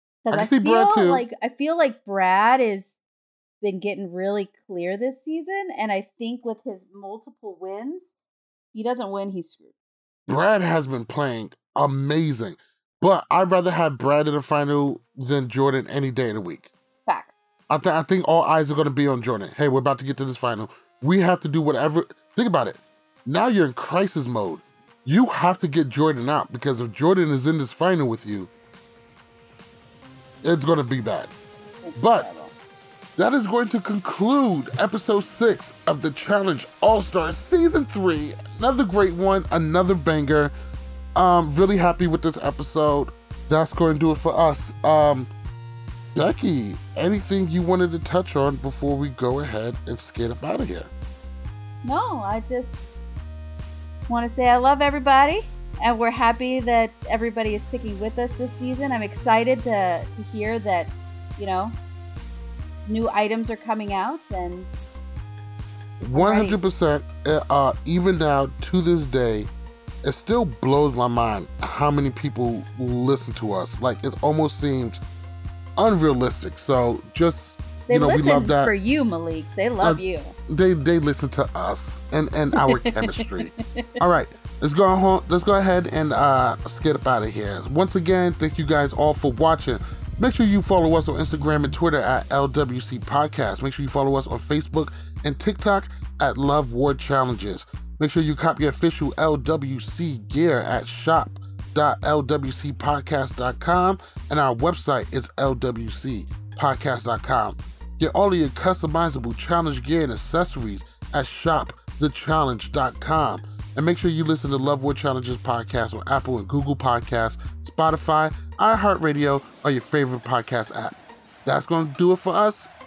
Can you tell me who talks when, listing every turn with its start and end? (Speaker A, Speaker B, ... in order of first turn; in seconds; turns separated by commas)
Speaker A: 0.2-3.0, Speaker B: 0.3-1.2, Speaker A: 3.6-8.2, Speaker A: 8.7-9.7, Speaker B: 10.3-16.7, Speaker A: 17.1-17.4, Speaker B: 17.7-28.5, Speaker B: 30.4-31.3, Speaker A: 31.8-32.5, Speaker B: 32.0-32.3, Speaker B: 33.2-40.5, Speaker B: 41.1-45.3, Speaker B: 46.1-50.9, Speaker A: 51.8-52.8, Speaker A: 54.1-61.8, Speaker A: 62.9-64.7, Speaker B: 66.0-69.5, Speaker A: 66.2-66.6, Speaker B: 70.0-75.0, Speaker B: 75.8-78.7, Speaker A: 77.9-80.3, Speaker B: 79.8-122.7, Speaker A: 82.5-84.0